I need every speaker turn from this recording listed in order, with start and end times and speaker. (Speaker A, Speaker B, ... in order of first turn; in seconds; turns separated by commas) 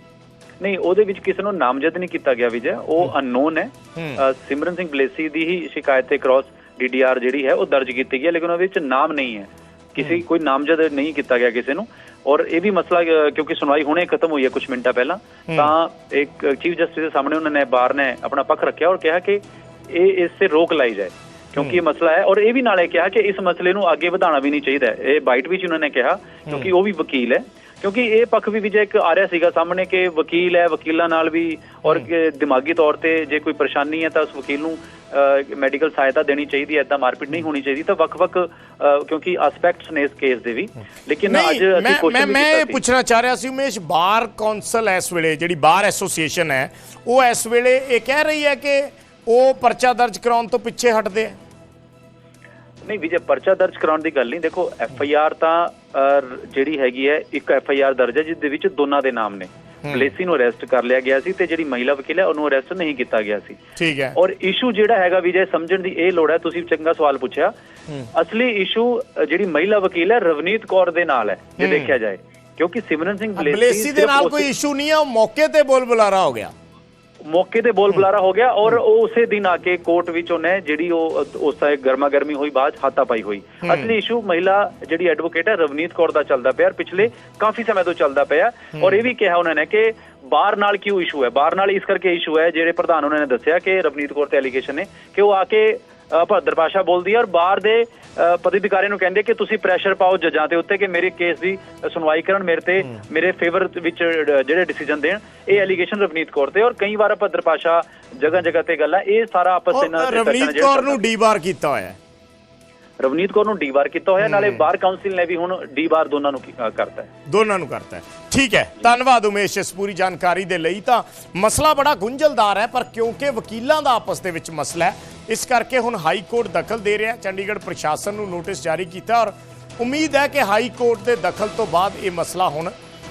Speaker A: 0.6-42.8, Speaker B: 41.2-51.4, Speaker A: 52.8-63.6, Speaker B: 63.8-64.2, Speaker A: 64.2-67.5, Speaker A: 68.1-74.5, Speaker B: 71.6-71.9, Speaker B: 73.4-76.5, Speaker A: 77.2-111.0, Speaker B: 109.7-112.0, Speaker A: 113.0-117.1, Speaker B: 117.3-132.7